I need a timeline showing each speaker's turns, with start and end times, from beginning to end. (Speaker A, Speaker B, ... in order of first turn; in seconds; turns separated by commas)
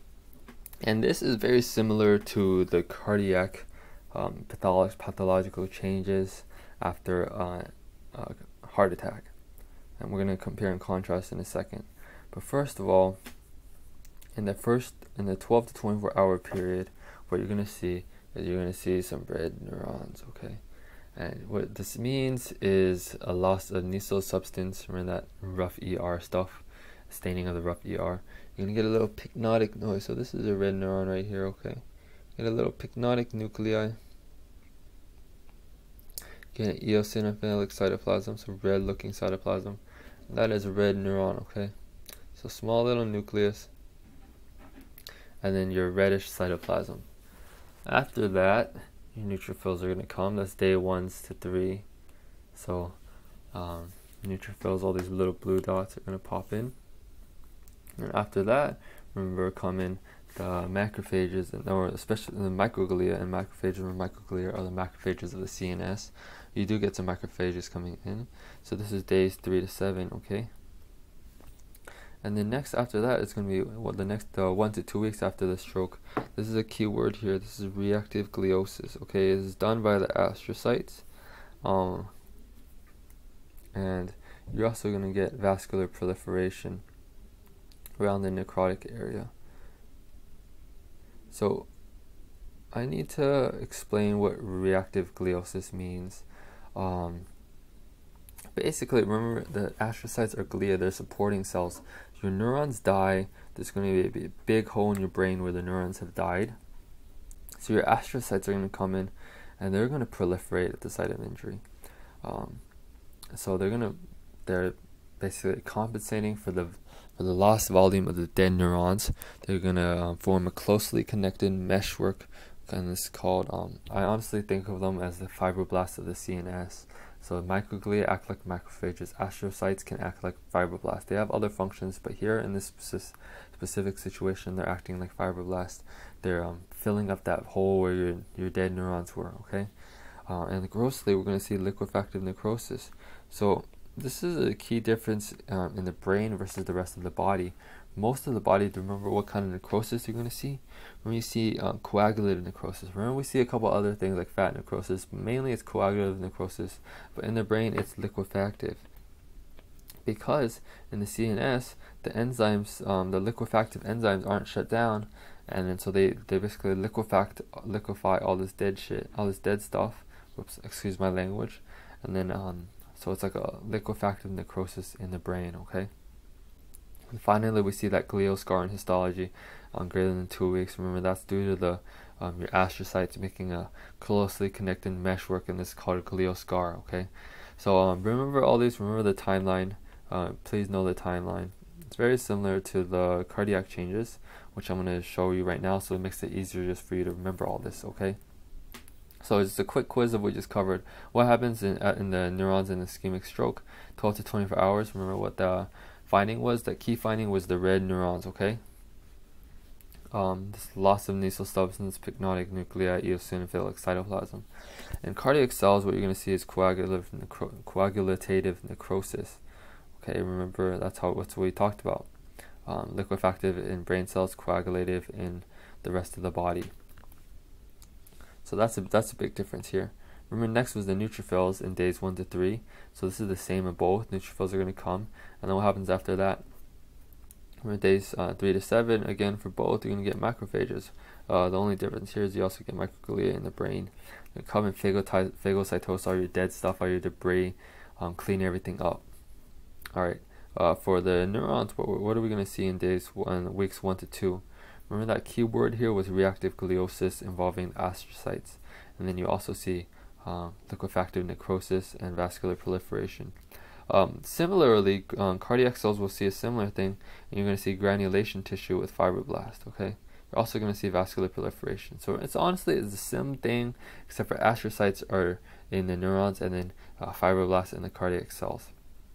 Speaker A: 0.8-9.3, Speaker A: 10.0-13.2, Speaker A: 14.4-20.6, Speaker A: 21.2-31.8, Speaker A: 32.4-34.0, Speaker A: 36.5-41.7, Speaker A: 42.4-43.7, Speaker A: 45.4-47.1, Speaker A: 47.9-51.9, Speaker A: 52.5-53.0, Speaker A: 53.5-56.8, Speaker A: 58.0-70.5, Speaker A: 72.2-81.0, Speaker A: 81.6-82.1, Speaker A: 83.8-86.8, Speaker A: 88.0-89.3, Speaker A: 91.3-91.7, Speaker A: 92.7-97.3, Speaker A: 98.5-106.6, Speaker A: 107.6-111.6, Speaker A: 112.2-112.6, Speaker A: 113.3-139.7, Speaker A: 140.3-158.9, Speaker A: 160.1-175.9, Speaker A: 177.1-198.2, Speaker A: 199.2-208.6, Speaker A: 210.1-214.5, Speaker A: 215.0-219.4, Speaker A: 220.0-222.1, Speaker A: 222.7-226.7, Speaker A: 228.4-236.4, Speaker A: 237.6-249.0, Speaker A: 249.9-263.4, Speaker A: 263.9-278.7